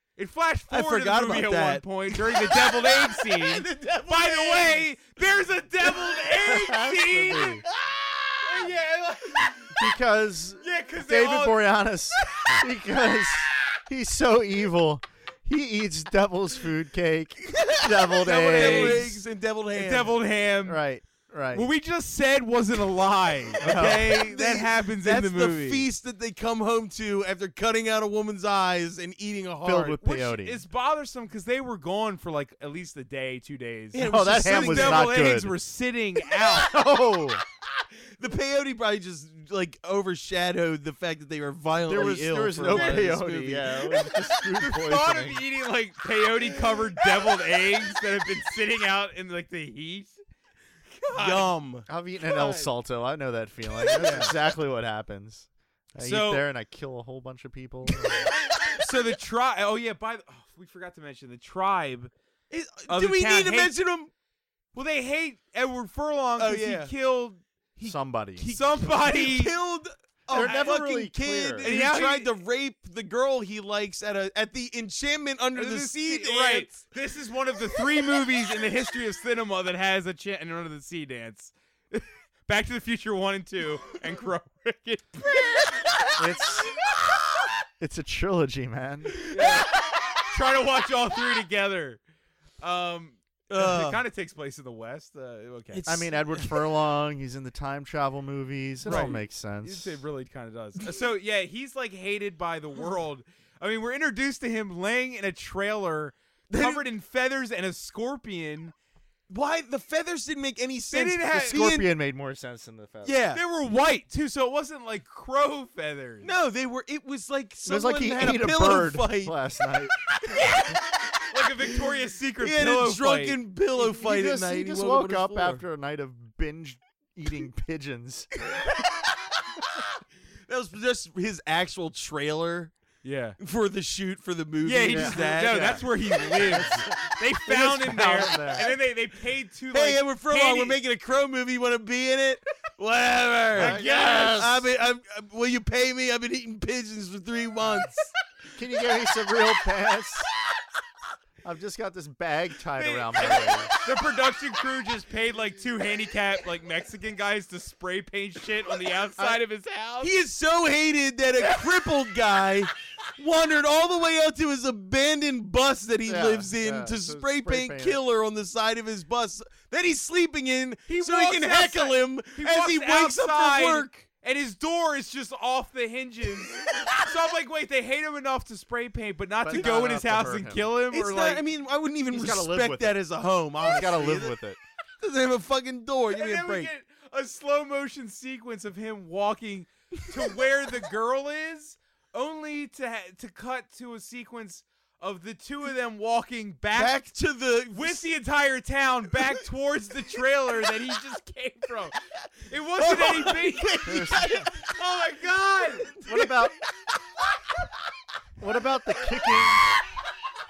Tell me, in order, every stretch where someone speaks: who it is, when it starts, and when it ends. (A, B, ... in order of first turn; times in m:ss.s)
0:00.2-0:07.6 A
0:00.7-0:05.1 B
0:05.8-0:06.2 B
0:06.4-0:07.6 C
0:07.8-0:08.3 B
0:08.4-0:09.8 A
0:09.7-0:19.2 C
0:10.6-0:11.7 A
0:17.5-0:20.2 B
0:18.5-0:19.2 A
0:19.7-0:20.8 A
0:20.6-0:21.7 C
0:21.5-0:25.9 A
0:23.6-0:30.0 B
0:23.6-0:24.2 C
0:29.6-0:30.6 C
0:30.0-0:36.7 A
0:33.9-0:35.2 B
0:34.0-0:35.6 C
0:36.5-0:37.4 C
0:38.2-0:43.9 B
0:41.9-0:45.5 C
0:42.7-0:43.1 A
0:44.0-0:50.2 A
0:51.0-0:51.5 A
0:51.1-0:51.9 B
0:51.9-0:58.3 C
0:53.9-0:54.3 B
0:54.0-0:54.3 A
0:56.0-0:56.4 A
0:58.8-1:02.1 A
1:02.5-1:04.1 B
1:02.9-1:03.8 A
1:04.7-1:07.4 A
1:06.4-1:06.9 B
1:07.8-1:16.8 B
1:07.8-1:08.6 C
1:08.4-1:09.5 A
1:10.3-1:11.7 C
1:10.3-1:10.8 A
1:11.6-1:12.3 A
1:15.6-1:25.6 A
1:26.2-1:26.8 C
1:27.8-1:29.2 C
1:29.3-1:29.7 A
1:30.3-1:32.0 A
1:32.6-1:35.9 A
1:33.5-1:34.0 B
1:35.7-1:36.7 B
1:35.9-1:40.0 C
1:38.8-1:39.2 B
1:38.8-1:48.7 A
1:46.5-1:46.8 B
1:49.3-1:51.9 B
1:50.9-1:51.6 A
1:51.4-1:53.2 C
1:53.0-1:53.4 B
1:53.3-1:56.3 A
1:56.2-1:59.4 B
1:57.6-2:00.0 C
2:00.3-2:00.7 B
2:01.3-2:03.4 A
2:02.4-2:05.6 B
2:03.8-2:08.3 C
2:10.5-2:12.7 B
2:13.0-2:13.4 A
2:13.4-2:15.9 B
2:14.6-2:20.8 A
2:14.9-2:18.7 C
2:19.7-2:28.1 B
2:23.6-2:24.4 A
2:23.6-2:24.7 C
2:28.5-2:30.3 C
2:31.4-2:33.7 C
2:32.8-2:40.1 A
2:40.0-2:54.1 B
2:46.1-2:48.0 C
2:50.9-3:01.4 A
2:59.4-3:00.7 C
2:59.6-2:59.8 B
3:00.9-3:04.4 B
3:02.1-3:03.0 C
3:03.6-3:04.6 C
3:05.0-3:06.7 B
3:06.1-3:17.0 A
3:16.7-3:18.1 B
3:17.7-3:26.0 A
3:22.8-3:24.7 B
3:23.9-3:24.5 C
3:25.8-3:26.5 B
3:26.0-3:26.6 C
3:28.4-3:29.7 C